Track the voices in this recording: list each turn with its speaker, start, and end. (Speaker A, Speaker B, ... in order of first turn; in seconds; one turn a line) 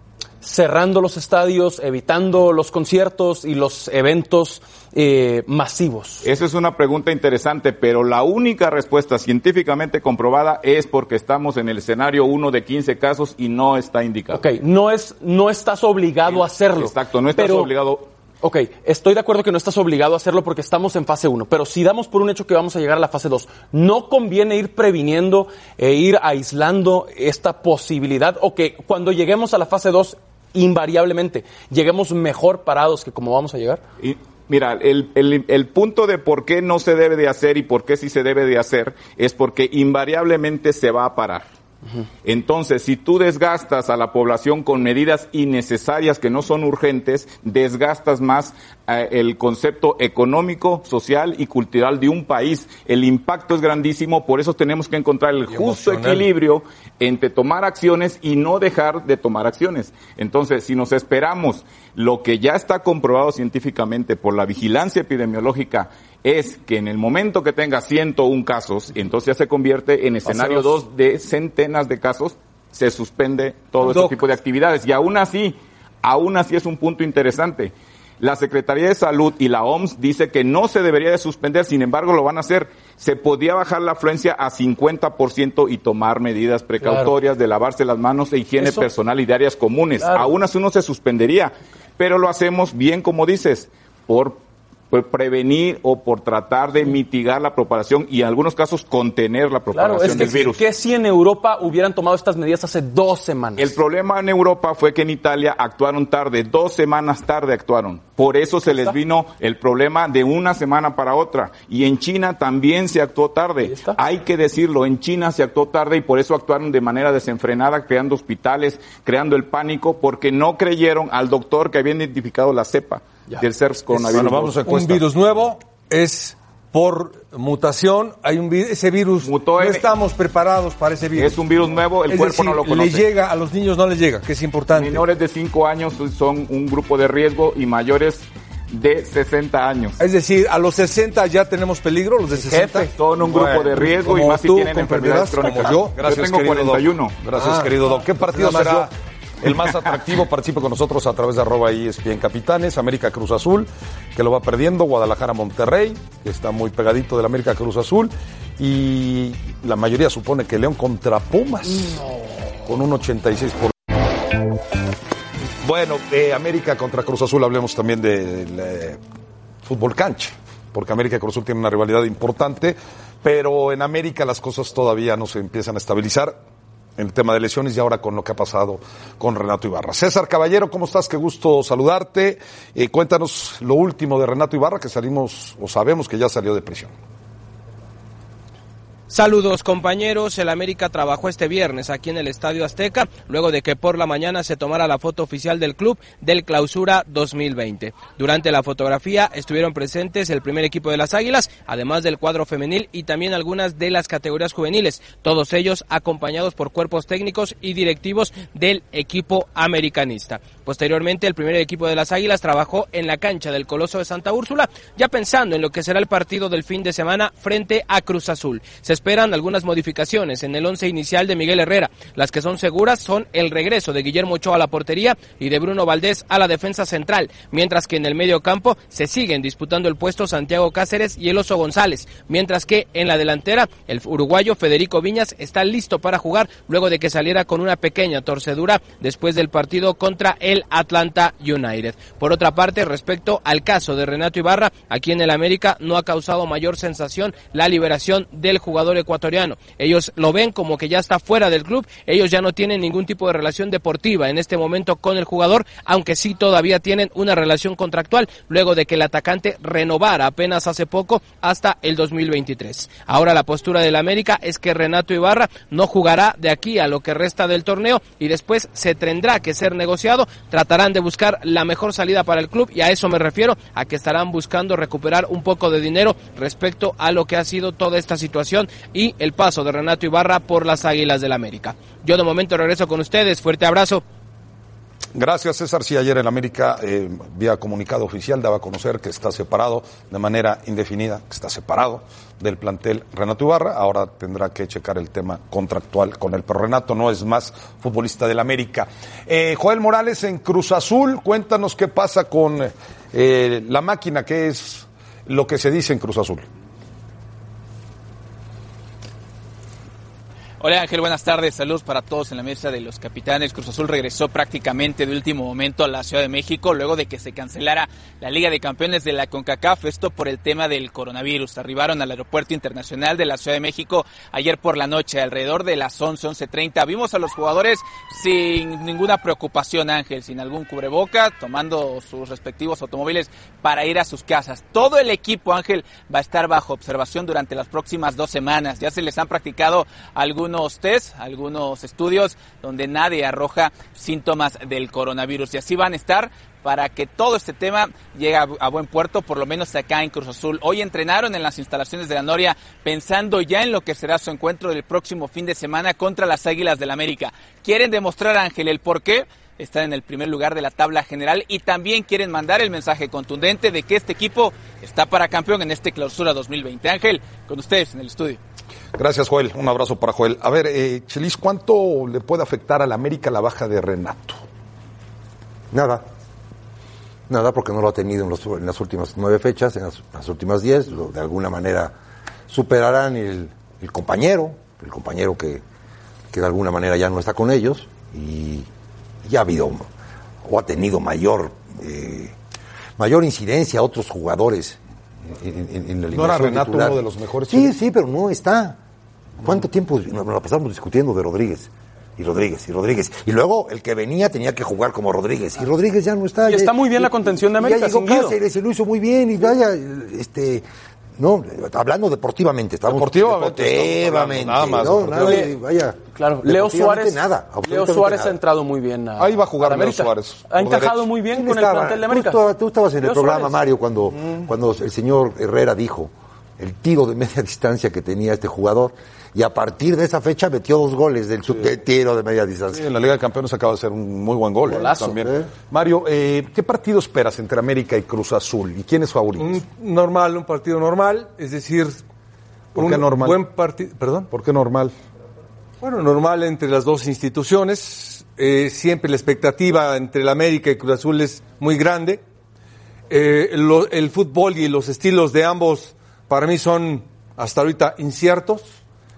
Speaker A: 0.4-6.2
Speaker B: 6.2-14.4
Speaker A: 14.3-17.7
Speaker B: 16.2-18.1
Speaker A: 18.4-33.8
Speaker B: 34.0-41.4
Speaker B: 42.2-94.4
Speaker C: 55.5-56.3
Speaker A: 70.3-70.7
Speaker C: 73.8-74.2
Speaker A: 86.8-87.1
Speaker A: 88.6-88.9
Speaker A: 90.0-90.3
Speaker B: 94.9-100.6
Speaker A: 99.7-103.8
Speaker B: 103.6-124.5
Speaker A: 108.7-108.9
Speaker A: 113.6-114.0
Speaker C: 123.9-131.4
Speaker D: 124.1-125.0
Speaker B: 129.2-129.9
Speaker B: 131.1-133.1
Speaker C: 132.1-135.0
Speaker B: 134.7-140.0
Speaker C: 140.0-145.9
Speaker B: 142.4-147.2
Speaker D: 145.9-148.9
Speaker C: 147.3-148.9
Speaker D: 149.4-162.0
Speaker D: 162.7-163.7
Speaker D: 165.6-169.0
Speaker D: 169.6-176.4
Speaker D: 177.0-186.9
Speaker E: 189.1-284.0
Speaker D: 285.1-306.4
Speaker F: 310.6-368.4
Speaker D: 368.9-374.4
Speaker G: 375.7-376.0
Speaker G: 377.3-381.9
Speaker G: 382.5-385.6
Speaker G: 386.3-388.7
Speaker G: 389.2-389.9
Speaker G: 390.4-392.3
Speaker G: 393.0-398.8
Speaker D: 396.1-397.7
Speaker G: 399.4-410.6
Speaker A: 406.4-408.4
Speaker G: 411.2-418.4
Speaker D: 412.9-415.5
Speaker A: 415.2-415.5
Speaker A: 416.1-422.4
Speaker D: 419.2-421.1
Speaker G: 421.3-432.9
Speaker A: 423.0-423.6
Speaker D: 424.1-424.5
Speaker D: 431.5-431.7
Speaker D: 432.7-439.6
Speaker A: 434.7-435.2
Speaker G: 434.7-435.5
Speaker C: 439.4-442.0
Speaker D: 442.7-443.4
Speaker C: 442.7-444.3
Speaker D: 444.3-444.9
Speaker C: 445.8-452.2
Speaker C: 453.1-458.7